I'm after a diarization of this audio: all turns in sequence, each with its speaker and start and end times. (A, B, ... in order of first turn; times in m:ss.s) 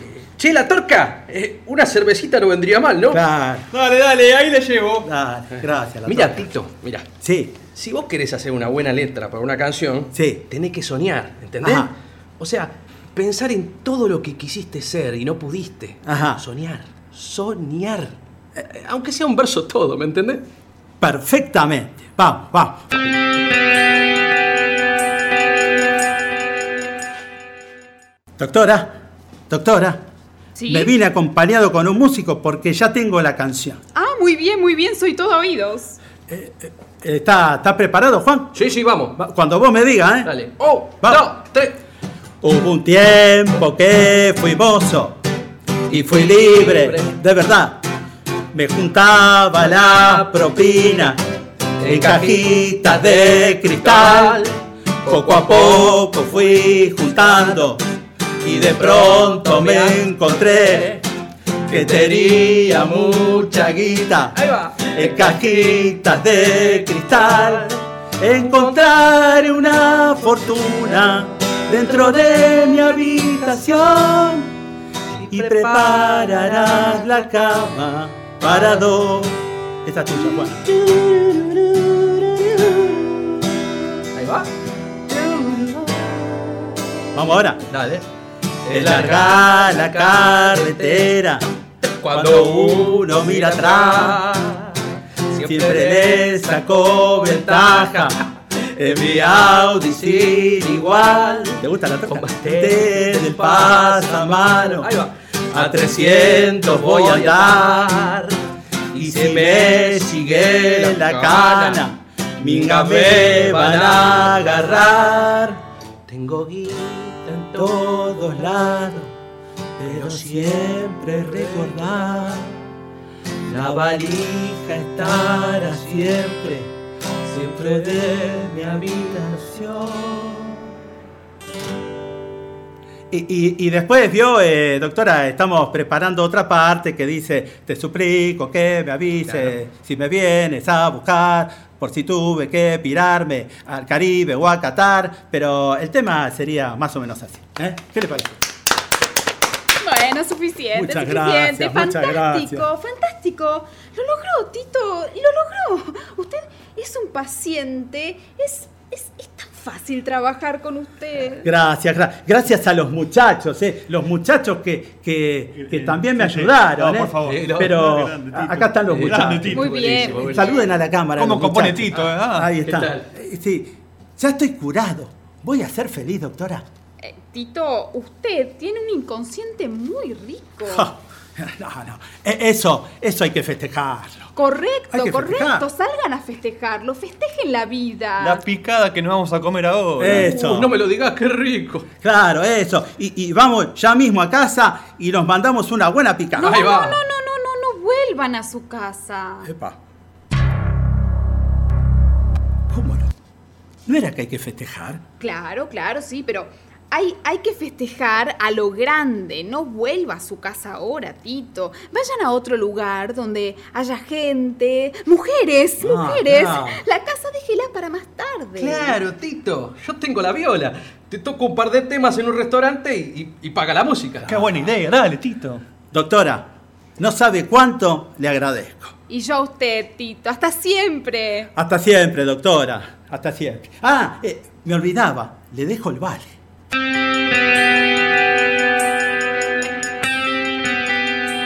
0:00.2-0:03.2 A
0:03.1-0:03.7 B
0:03.7-0:05.1 C
0:05.0-0:06.5 B
0:06.0-0:07.1 A
0:07.2-0:07.6 B
0:07.7-0:20.4 A
0:10.1-0:10.4 B
0:11.6-0:11.9 B
0:16.0-0:16.4 B
0:21.0-0:22.8 B
0:28.4-0:29.0 B
0:29.5-0:30.0 B
0:30.6-0:30.9 D
0:30.7-0:33.8 B
0:33.9-0:36.0 D
0:36.3-0:38.6 B
0:38.5-0:39.2 A
0:39.2-0:40.3 B
0:40.2-0:41.8 A
0:42.4-0:45.2 B
0:45.9-0:47.8 B
0:45.9-0:47.1 A
0:48.5-0:51.2 B
0:49.8-0:50.2 A
0:51.8-0:55.9 A
0:51.8-0:54.4 B
0:55.0-0:57.8 B
0:58.4-1:01.0 B
0:58.4-1:00.0 A
1:01.7-1:04.4 B
1:01.7-1:03.7 A
1:04.3-1:05.5 A
1:04.9-1:07.7 B
1:07.1-1:07.8 A
1:08.2-1:14.5 B
1:15.1-1:16.7 A
1:15.3-1:21.4 B
1:21.0-1:22.8 A
1:24.1-1:24.5 A
1:25.1-1:26.9 A
1:27.1-1:27.6 B
1:27.7-1:28.0 A
1:28.6-1:31.1 A
1:28.7-1:31.4 B
1:31.8-1:36.4 A
1:32.1-1:34.2 B
1:35.4-1:38.2 B
1:37.2-1:41.6 A
1:38.7-1:44.9 B
1:42.1-1:48.4 A
1:45.6-1:47.9 B
1:48.9-1:51.8 A
1:49.0-1:55.6 B
1:52.4-1:54.9 A
1:56.1-1:59.0 A
1:57.6-1:59.0 B
1:59.8-2:02.4 B
1:59.8-2:02.3 A
2:03.5-2:06.6 A
2:04.8-2:06.4 B
2:07.2-2:10.6 A
2:13.1-2:28.4 B
2:29.8-2:41.5 D
2:30.7-2:32.7 B
2:41.4-2:56.6 B
2:45.6-2:49.8 C
2:47.2-2:47.7 A
2:48.9-2:50.5 A
2:49.5-2:50.7 D
2:51.2-2:52.5 C
2:52.6-2:53.0 A
2:57.0-3:00.9 D
3:00.7-3:04.3 B
3:04.4-3:08.4 D
3:04.9-3:05.6 B
3:08.2-3:10.3 C
3:10.0-3:10.8 B
3:10.0-3:11.8 A
3:12.0-3:16.6 B
3:16.4-3:19.5 D
3:16.4-3:17.0 A
3:19.4-3:19.8 B
3:22.7-3:23.1 B
3:23.9-3:25.0 B
3:25.2-3:39.0 D
3:35.8-3:36.8 B
3:38.6-3:44.5 A
3:44.2-3:45.6 C
3:45.9-3:48.9 B
3:49.1-3:51.5 D
3:51.6-3:56.3 B